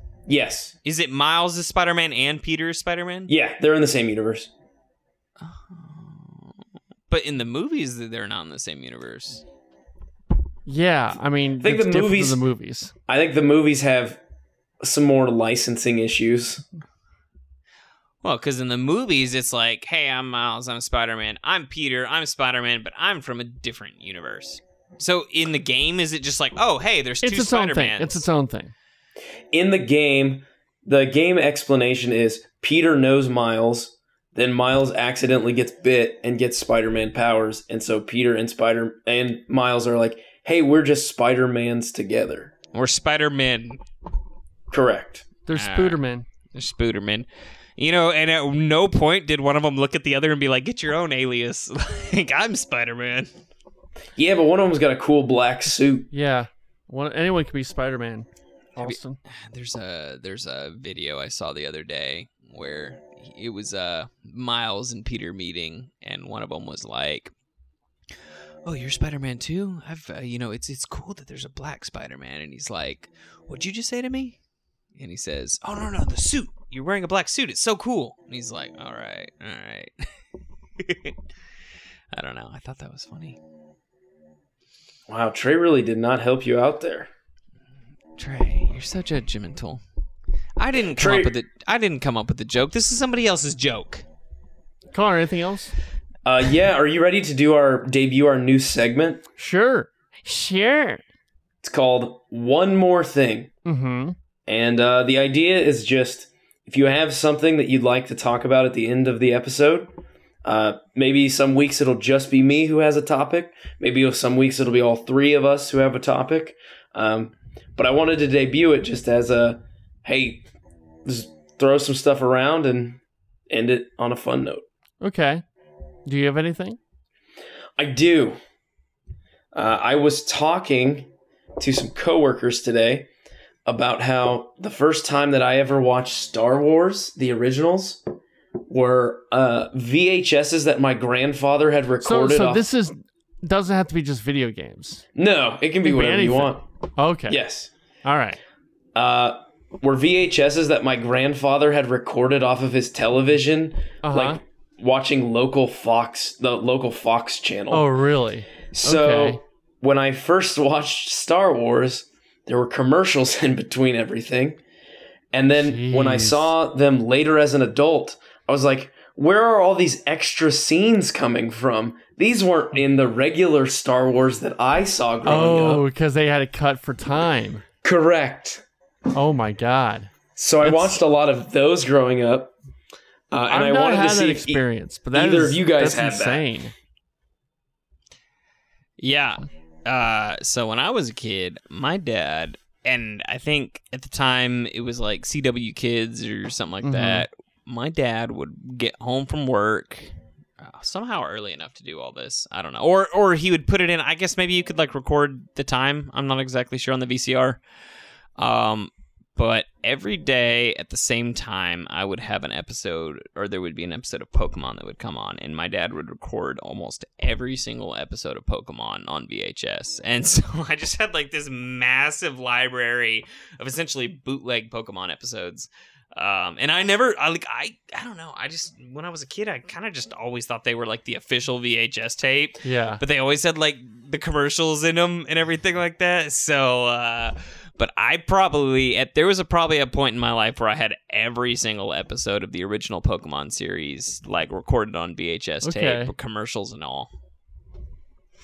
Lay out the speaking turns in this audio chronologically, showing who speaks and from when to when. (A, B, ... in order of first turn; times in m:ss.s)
0:00.3-0:00.7 A
0:00.8-0:03.3 B
0:03.3-0:04.5 A
0:05.4-0:06.5 B
0:07.1-0:09.4 B
0:10.6-0:12.9 C
0:11.6-0:12.4 A
0:13.1-0:14.2 A
0:14.8-0:16.6 A
0:18.2-0:28.2 B
0:27.2-0:28.7 C
0:29.5-0:42.5 A
0:42.7-0:43.8 B
0:44.7-0:45.2 A
0:45.4-0:46.2 C
0:45.5-0:46.0 B
0:46.5-0:53.3 B
0:54.2-0:56.1 A
0:56.1-0:59.2 C
0:58.8-1:07.3 B
1:08.6-1:14.4 B
1:15.0-1:20.1 B
1:20.8-1:21.1 B
1:22.1-1:23.4 B
1:25.1-1:27.1 A
1:28.2-1:29.8 B
1:30.6-1:34.0 B
1:31.0-1:31.3 A
1:34.9-1:35.7 C
1:36.2-1:39.2 A
1:39.4-1:41.0 C
1:41.6-1:43.5 A
1:43.6-1:44.2 C
1:44.5-1:49.9 A
1:50.4-2:00.4 A
2:01.0-2:04.6 A
2:05.0-2:05.4 C
2:06.0-2:06.8 C
2:07.8-2:08.4 A
2:09.5-2:13.1 A
2:13.6-2:18.0 A
2:18.7-2:22.6 A
2:22.0-2:25.0 C
2:25.1-2:26.6 A
2:25.8-2:27.4 C
2:27.3-2:27.7 A
2:28.0-2:28.4 C
2:28.9-2:37.9 A
2:34.0-2:34.4 C
2:37.7-2:39.4 C
2:38.7-2:44.6 A
2:45.3-2:55.8 A
2:45.5-2:46.5 C
2:55.2-2:57.6 C
2:57.8-2:58.6 A
2:59.1-3:00.1 C
3:00.4-3:02.5 A
3:00.6-3:01.0 C
3:03.3-3:06.4 A
3:03.5-3:06.7 C
3:09.0-3:27.6 B
3:16.8-3:17.2 C
3:28.4-4:07.1 B
3:52.6-3:53.0 C
4:05.6-4:06.1 C